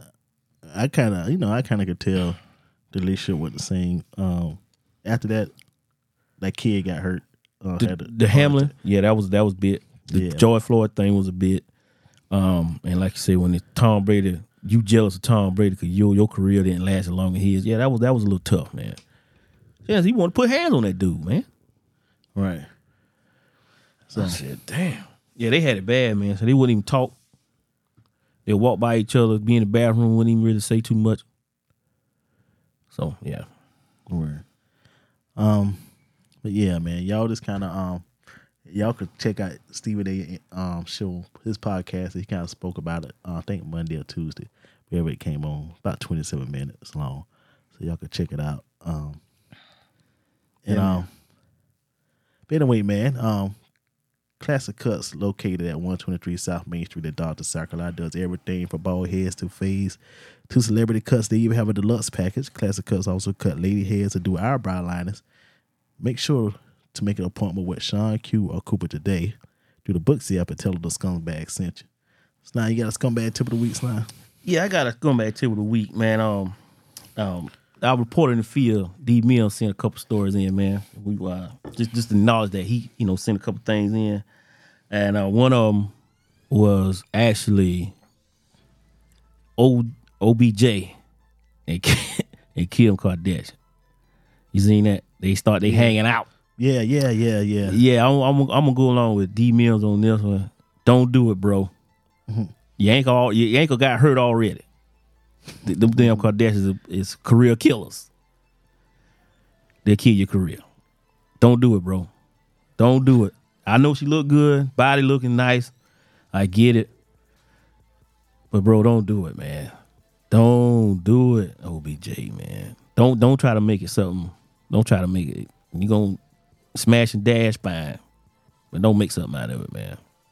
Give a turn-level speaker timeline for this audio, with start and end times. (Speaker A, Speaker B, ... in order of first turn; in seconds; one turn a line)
Speaker A: 0.7-2.4
Speaker A: 2.9-5.5
Speaker A: 6.4-8.7
Speaker B: 7.8-11.7
Speaker A: 10.1-10.5
Speaker B: 12.3-19.0
Speaker B: 19.9-21.5
Speaker A: 22.4-22.7
Speaker A: 24.1-24.4
Speaker B: 24.2-27.1
Speaker B: 28.5-31.2
Speaker B: 32.9-33.5
Speaker A: 34.1-34.4
Speaker A: 35.4-35.8
Speaker A: 36.4-38.1
Speaker A: 38.6-49.2
Speaker A: 50.7-51.1
Speaker B: 50.7-51.1
Speaker A: 52.5-53.6
Speaker A: 54.4-65.2
Speaker A: 66.0-71.9
Speaker A: 72.4-74.1
Speaker B: 74.4-76.6
Speaker B: 77.2-84.2
Speaker B: 84.9-85.9
Speaker B: 86.5-87.9
Speaker B: 89.6-91.0
Speaker B: 91.7-93.5
Speaker B: 94.5-96.3
Speaker A: 95.6-96.0
Speaker A: 96.6-97.8
Speaker B: 97.7-101.7
Speaker B: 102.8-104.7
Speaker B: 105.6-108.1
Speaker A: 105.8-106.3
Speaker B: 109.8-110.6
Speaker B: 111.4-112.1
Speaker B: 112.8-115.7
Speaker B: 116.3-116.9
Speaker B: 118.5-119.7
Speaker B: 120.3-126.2
Speaker B: 126.8-128.0
Speaker B: 128.7-130.0